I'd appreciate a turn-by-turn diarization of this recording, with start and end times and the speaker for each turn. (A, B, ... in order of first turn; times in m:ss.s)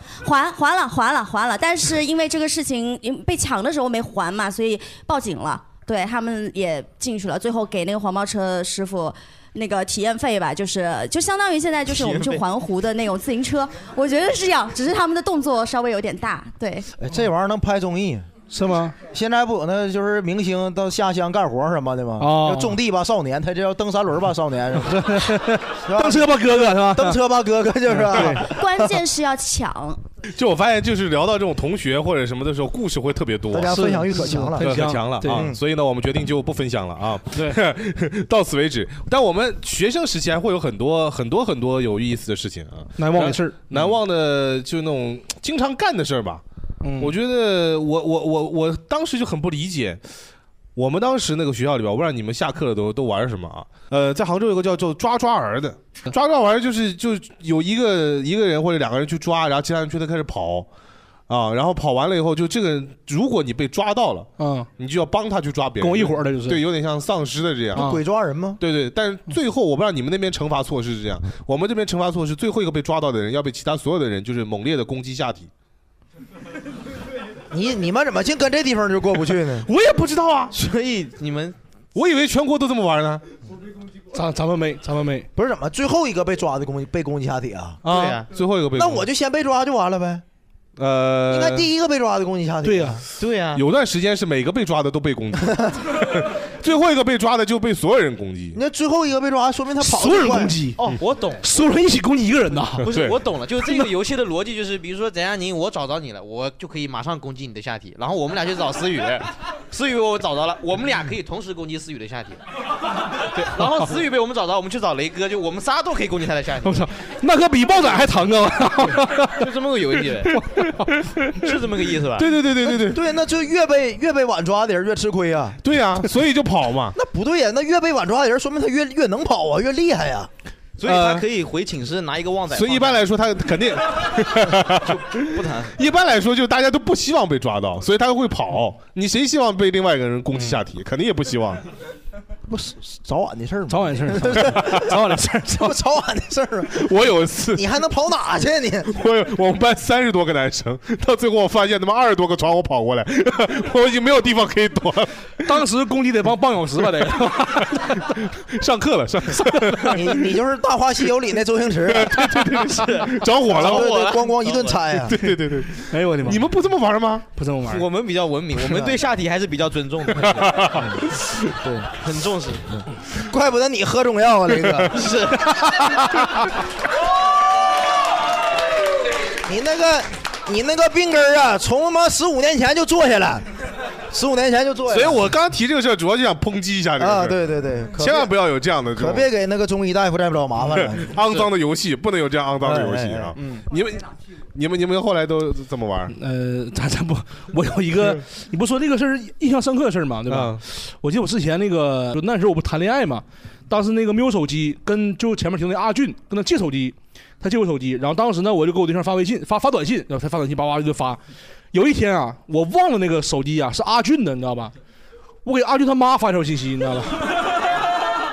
0:00.2-0:16.9 A
0:11.9-0:12.4 B
0:17.0-0:18.3 B
0:18.5-0:19.0 C
0:19.0-0:25.3 B
0:22.2-0:22.7 C
0:24.8-0:27.2 C
0:25.8-0:28.6 B
0:27.9-0:28.5 C
0:28.4-0:30.0 A
0:30.3-0:33.8 D
0:33.5-0:35.6 B
0:33.7-0:35.5 C
0:34.6-0:46.4 D
0:37.3-0:37.6 C
0:43.0-0:44.0 C
0:46.8-0:47.1 C
0:47.0-0:50.0 D
0:50.7-1:00.7 D
1:01.3-1:08.0 D
1:04.4-1:04.7 C
1:05.8-1:06.6 C
1:07.7-1:08.6 B
1:07.7-1:08.0 C
1:08.6-1:15.5 D
1:17.5-1:19.7 B
1:19.6-1:20.5 C
1:20.5-1:21.6 E
1:21.9-1:23.2 D
1:24.1-1:25.3 C
1:25.3-1:27.8 B
1:27.8-1:28.3 E
1:27.9-1:29.1 D
1:28.7-1:30.2 B
1:30.8-1:31.7 D
1:31.3-1:33.0 B
1:32.6-1:33.0 C
1:33.2-1:33.6 E
1:33.5-1:38.6 D
1:38.5-1:40.6 B
1:39.8-1:40.8 C
1:40.8-1:41.4 E
1:41.4-1:42.9 C
1:42.8-1:52.4 E
1:42.8-1:43.2 D
1:43.6-1:43.9 C
1:53.2-1:56.8 E
1:56.6-1:59.5 C
1:59.2-2:00.4 E
2:00.2-2:01.1 C
2:01.4-2:02.3 E
2:02.1-2:03.0 D
2:02.7-2:05.6 B
2:05.6-2:07.0 D
2:07.0-2:10.3 B
2:10.8-2:13.0 E
2:10.8-2:11.2 D
2:12.5-2:21.6 D
2:14.8-2:15.8 E
2:22.5-2:26.9 B
2:23.7-2:25.8 C
2:24.4-2:25.0 D
2:26.7-2:27.6 D
2:27.5-2:28.9 B
2:28.8-2:35.6 D
2:35.4-2:38.0 C
2:37.5-2:40.3 D
2:39.9-2:42.5 B
2:41.9-2:43.9 D
2:42.6-2:45.0 E
2:43.5-2:45.2 B
2:45.0-2:47.3 D
2:45.9-2:46.5 C
2:47.4-2:47.8 C
2:47.6-2:50.6 E
2:48.6-2:49.0 B
2:50.2-2:51.5 D
2:50.7-2:51.0 B
2:51.6-2:51.9 B
2:52.0-2:52.8 E
2:52.7-2:55.1 B
2:54.9-2:55.5 E
2:55.6-2:56.0 B
2:59.4-3:03.5 B
3:04.1-3:05.3 B
3:04.9-3:07.4 D
3:07.0-3:08.3 B
3:07.9-3:09.3 D
3:08.9-3:11.2 B
3:10.7-3:16.2 D
3:12.6-3:13.4 B
3:16.1-3:31.2 C
3:20.3-3:20.6 D
3:31.7-3:34.7 C
3:35.4-3:37.4 C